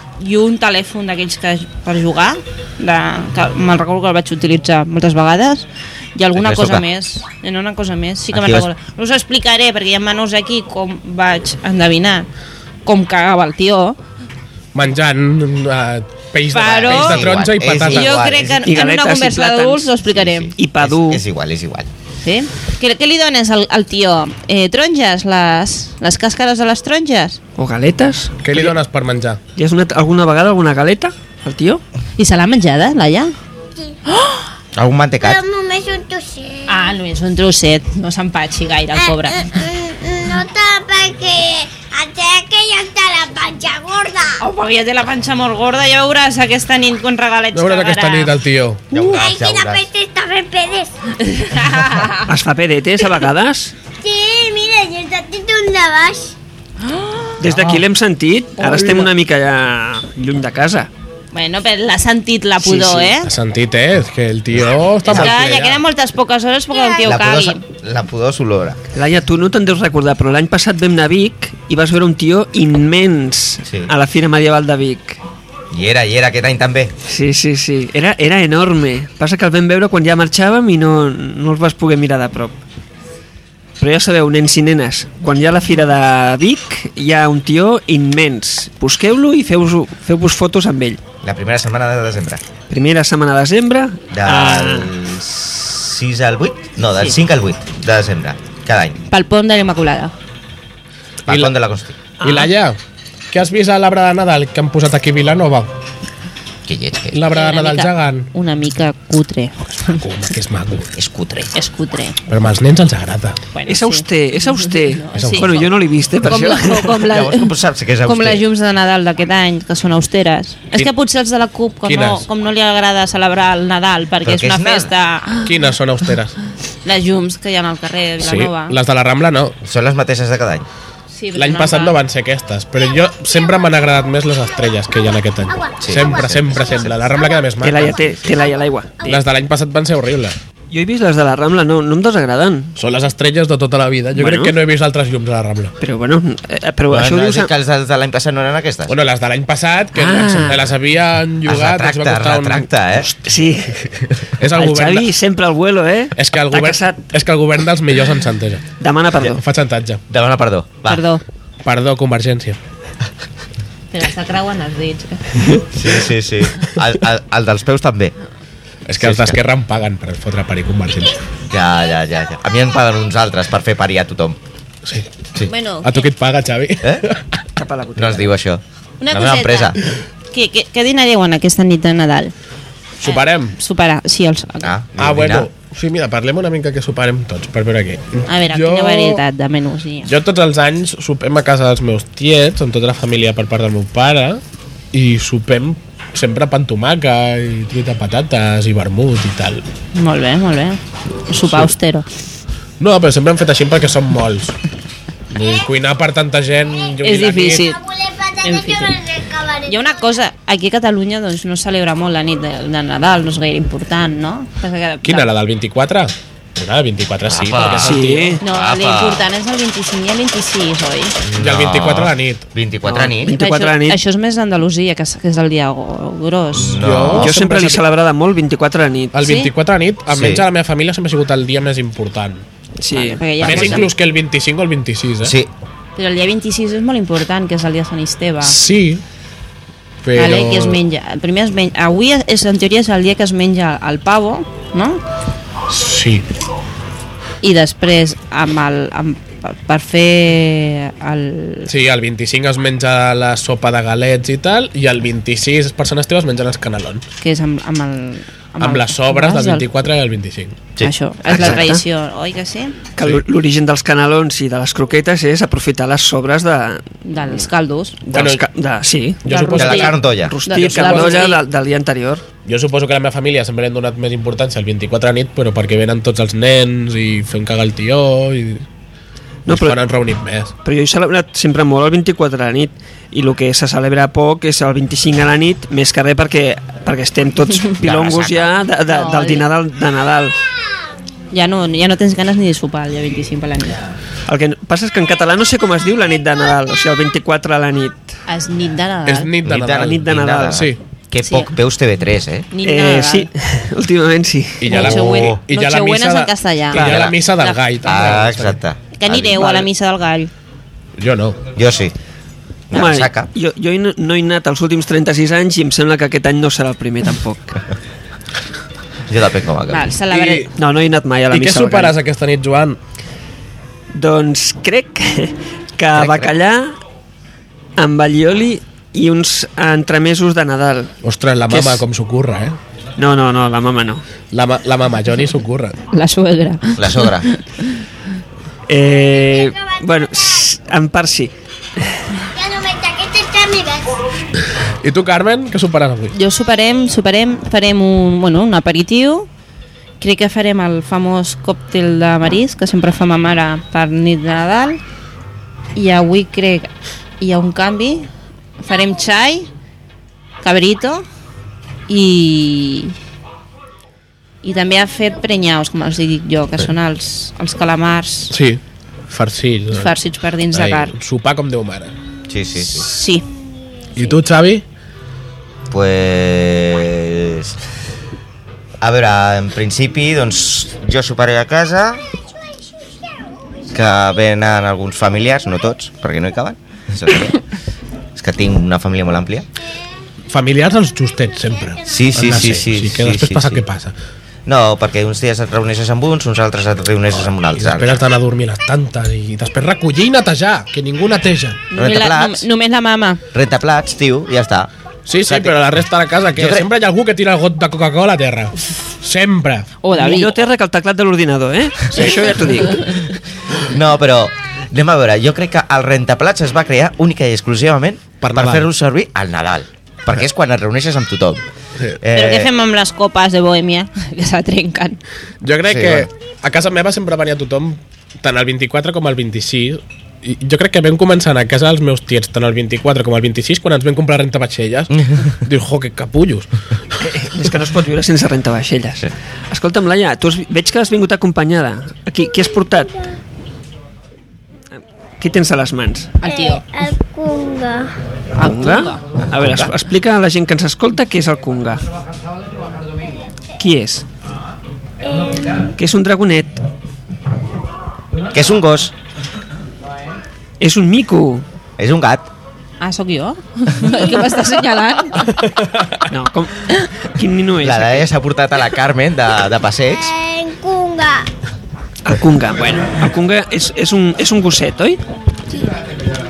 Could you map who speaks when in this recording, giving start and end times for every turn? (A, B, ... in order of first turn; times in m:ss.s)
0:00.2-0:05.6 A
0:06.2-0:12.2 A
0:06.4-0:06.8 B
0:08.3-0:08.7 B
0:12.8-0:14.0 A
0:14.7-0:18.1 C
0:16.5-0:17.3 A
0:16.6-0:18.7 B
0:17.8-0:20.5 A
0:18.6-0:19.9 D
0:20.1-0:21.9 B
0:20.6-0:21.2 D
0:22.2-0:27.4 A
0:27.6-0:28.8 D
0:28.4-0:29.4 C
0:29.6-0:31.8 D
0:32.2-0:33.3 A
0:34.1-0:34.4 A
0:34.7-0:35.4 B
0:35.2-0:36.9 E
0:36.7-0:39.5 A
0:39.0-0:44.4 E
0:44.4-0:48.3 A
0:47.5-0:48.8 C
0:48.9-0:49.9 B
0:49.0-0:50.9 E
0:51.2-0:52.3 A
0:52.2-0:53.7 D
0:54.0-0:56.3 E
0:56.8-0:57.4 A
0:57.4-1:00.9 D
0:58.6-0:59.1 A
1:01.3-1:03.3 A
1:02.6-1:03.1 D
1:03.2-1:05.8 C
1:04.5-1:05.7 B
1:05.1-1:07.6 A
1:06.7-1:07.2 E
1:07.0-1:08.8 B
1:08.9-1:15.2 D
1:13.6-1:13.9 B
1:15.7-1:16.9 B
1:17.0-1:22.5 D
1:23.8-1:31.0 D
1:31.2-1:32.4 B
1:32.7-1:34.9 D
1:34.1-1:39.0 B
1:39.1-1:40.1 A
1:41.2-1:41.9 B
1:41.3-1:41.5 C
1:42.2-1:42.5 D
1:42.2-1:42.8 C
1:43.3-1:45.7 C
1:46.7-1:47.2 B
1:47.1-1:48.3 C
1:47.3-1:50.0 A
1:49.8-1:50.9 C
1:51.0-1:51.5 B
1:51.5-1:52.2 A
1:52.3-1:53.4 C
1:53.5-1:55.5 A
1:53.7-1:57.0 D
1:55.1-1:55.7 C
1:56.2-1:57.5 A
1:57.0-1:58.4 B
1:58.0-2:05.5 A
2:01.8-2:02.3 C
2:04.2-2:04.9 B
2:05.4-2:06.4 C
2:06.8-2:08.8 A
2:08.2-2:09.5 C
2:09.6-2:10.6 B
2:11.1-2:12.0 A
2:11.3-2:18.0 C
2:15.5-2:19.2 E
2:15.8-2:17.2 B
2:17.6-2:19.2 D
2:19.0-2:20.4 C
2:20.7-2:22.7 D
2:22.8-2:25.7 C
2:24.2-2:24.6 D
2:25.8-2:27.5 D
2:26.9-2:28.9 B
2:28.9-2:32.7 C
2:29.9-2:30.7 D
2:31.4-2:33.1 B
2:33.2-2:33.7 D
2:34.0-2:35.1 C
2:34.5-2:37.0 D
2:36.2-2:38.6 C
2:38.8-2:39.4 D
2:39.2-2:40.0 C
2:40.1-2:41.0 B
2:40.9-2:41.2 A
2:41.6-2:42.6 C
2:43.9-2:45.4 A
2:45.7-2:48.1 B
2:48.9-2:51.2 C
2:49.0-2:49.4 B
2:51.5-2:54.4 B
2:55.5-2:56.1 A
2:55.8-2:57.4 C
2:57.6-2:58.3 D
2:58.0-2:59.8 B
2:59.0-2:59.8 A
3:00.3-3:02.3 A
3:03.0-3:03.6 C
3:03.0-3:04.7 A
3:04.6-3:05.5 B
3:05.0-3:09.2 C
3:08.3-3:10.1 A
3:10.0-3:14.4 C
3:14.9-3:19.6 C
3:19.9-3:22.0 A
3:21.4-3:21.7 C
3:22.8-3:24.6 C
3:25.3-3:27.6 C
3:27.0-3:27.8 A
3:27.5-3:30.0 E
3:28.4-3:29.0 A
3:29.7-3:35.3 A
3:35.0-3:38.4 C
3:37.3-3:39.3 B
3:37.8-3:38.4 D
3:38.4-3:41.2 A
3:41.2-3:43.4 B
3:41.4-3:42.4 C
3:42.8-3:44.0 D
3:43.3-3:46.8 A
3:46.6-3:47.3 B
3:46.8-3:47.8 C
3:47.2-3:49.1 D
3:49.1-3:52.4 C
3:49.2-3:49.5 A
3:50.1-3:50.4 B
3:52.8-3:53.8 D
3:52.9-3:53.9 A
3:53.4-3:55.3 C
3:55.2-3:55.5 B
3:56.0-3:58.6 A
3:58.4-3:59.0 C
4:00.0-4:00.8 C
4:00.2-4:05.0 A
4:05.7-4:06.2 C
4:07.4-4:11.7 A
4:11.7-4:17.0 C
4:17.2-4:19.6 A
4:18.6-4:20.6 C
4:20.8-4:21.7 B
4:20.8-4:22.8 A
4:21.3-4:21.8 D
4:23.0-4:26.8 D
4:27.0-4:28.0 A
4:28.1-4:29.2 D
4:28.1-4:28.4 C
4:29.2-4:29.9 C
4:29.3-4:31.4 A
4:29.5-4:30.3 B
4:30.2-4:32.2 D
4:30.7-4:31.2 C
4:32.4-4:38.6 C
4:39.4-4:39.8 D
4:39.5-4:40.5 C
4:40.6-4:50.4 D
4:47.8-4:48.6 B
4:48.9-4:49.4 A
4:51.3-4:53.8 A
4:54.3-4:58.1 D
4:58.3-4:59.3 A
4:59.0-5:00.8 C
4:59.4-5:02.5 B
4:59.7-5:00.6 D
5:01.2-5:01.5 A
5:02.5-5:03.3 A
5:02.6-5:04.7 D
5:04.6-5:08.6 C
5:04.7-5:07.6 A
5:04.7-5:05.4 B
5:06.7-5:07.2 B
5:07.8-5:09.5 B
5:09.0-5:10.3 A
5:11.0-5:11.4 C
5:11.5-5:11.9 B
5:12.7-5:13.3 B
5:12.7-5:17.6 D
5:19.1-5:19.9 B
5:19.7-5:20.5 A
5:20.1-5:20.5 C
5:20.6-5:21.9 D
5:21.3-5:22.8 C
5:23.9-5:26.8 D
5:25.9-5:26.3 C
5:27.8-5:30.9 D
5:31.0-5:32.6 C
5:31.5-5:31.8 D
5:33.0-5:34.0 D
5:34.3-5:35.8 C
5:35.9-5:37.8 A
5:36.8-5:37.3 B
5:38.7-5:42.0 D
5:39.2-5:39.8 E
5:42.3-5:44.0 E
5:44.8-5:46.1 C
5:46.1-5:49.3 A
5:50.0-5:54.8 A
5:55.8-5:58.1 A
5:58.6-5:59.5 A
6:00.4-6:01.0 A
6:01.9-6:02.9 A
6:04.4-6:08.3 A
6:08.3-6:09.9 C
6:09.7-6:10.9 A
6:10.5-6:11.9 C
6:12.3-6:12.9 B
6:12.6-6:13.2 A
6:13.9-6:14.6 C
6:15.7-6:17.6 B
6:18.8-6:22.0 B
6:23.7-6:27.4 B
6:28.2-6:29.4 B
6:30.3-6:33.9 C
6:31.8-6:33.6 B
6:34.4-6:38.0 B
6:37.6-6:41.6 C
6:41.7-6:43.2 A
6:41.7-6:42.4 B
6:43.3-6:44.7 B
6:45.1-6:49.7 C
6:45.2-6:45.5 B
6:46.3-6:46.7 B
6:49.8-6:50.3 A
6:50.0-6:53.0 D
6:53.6-7:01.4 B
6:58.2-6:58.7 C
7:02.0-7:02.5 B
7:02.1-7:05.0 A
7:05.4-7:16.5 C
7:05.6-7:06.1 B
7:17.0-7:22.9 D
7:25.2-7:26.1 D
7:26.2-7:26.6 A
7:26.2-7:27.9 E
7:28.4-7:29.0 A
7:28.4-7:31.8 D
7:33.6-7:34.0 D
7:35.8-7:36.6 D
7:38.3-7:38.9 B
7:40.6-7:41.4 D
7:41.8-7:42.3 B
7:42.8-7:45.4 A
7:43.8-7:44.2 E
7:46.1-7:48.1 D
7:47.6-7:50.1 B
7:49.9-7:51.3 E
7:52.0-7:55.0 D